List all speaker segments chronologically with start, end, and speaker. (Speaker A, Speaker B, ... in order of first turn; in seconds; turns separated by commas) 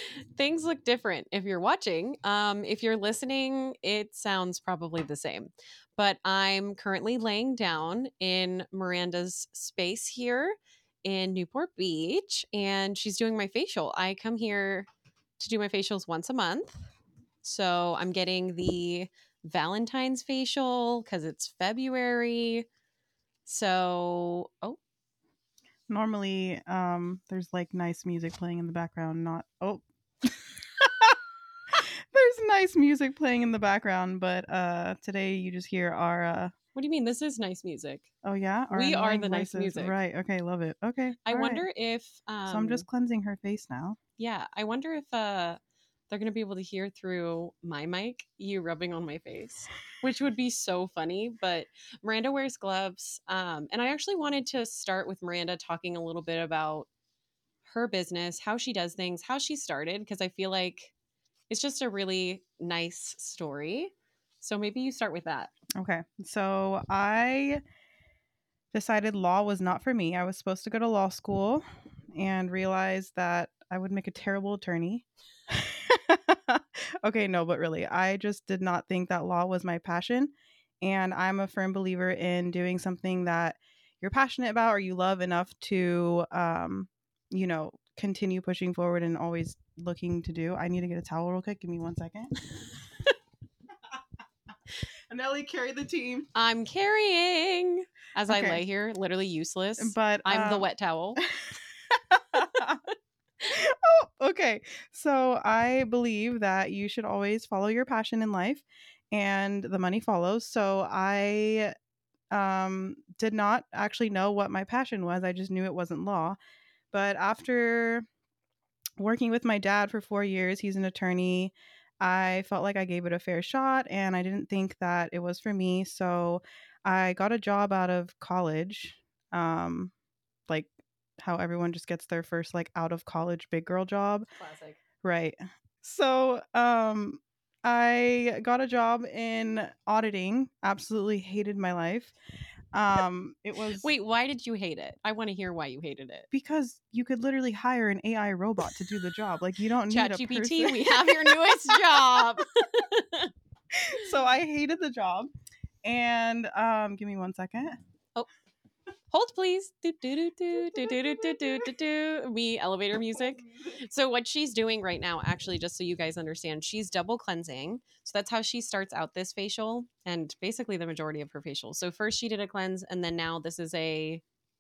Speaker A: 0.3-16.8, Speaker A: 17.4-22.6, Speaker A: 23.4-24.8, Speaker B: 25.9-31.2, Speaker B: 31.8-36.5, Speaker A: 36.7-38.1, Speaker B: 38.2-41.6, Speaker A: 38.7-40.0, Speaker A: 41.2-42.9, Speaker B: 42.5-44.0, Speaker A: 44.2-56.9, Speaker A: 57.6-60.9, Speaker A: 61.5-65.5, Speaker B: 65.8-67.6, Speaker B: 68.7-92.4, Speaker B: 95.1-96.3, Speaker A: 96.3-101.2, Speaker B: 98.3-98.6, Speaker B: 99.8-102.9, Speaker B: 103.4-111.7, Speaker B: 112.3-116.4, Speaker B: 116.9-118.0, Speaker B: 119.0-129.9, Speaker B: 130.5-134.3, Speaker A: 134.4-134.8, Speaker B: 135.0-142.1, Speaker B: 142.7-143.9, Speaker A: 143.8-146.3, Speaker B: 146.3-152.2, Speaker A: 149.9-153.3, Speaker B: 153.7-155.3, Speaker B: 155.8-157.8, Speaker A: 159.1-174.2, Speaker B: 160.7-161.5, Speaker B: 163.2-163.8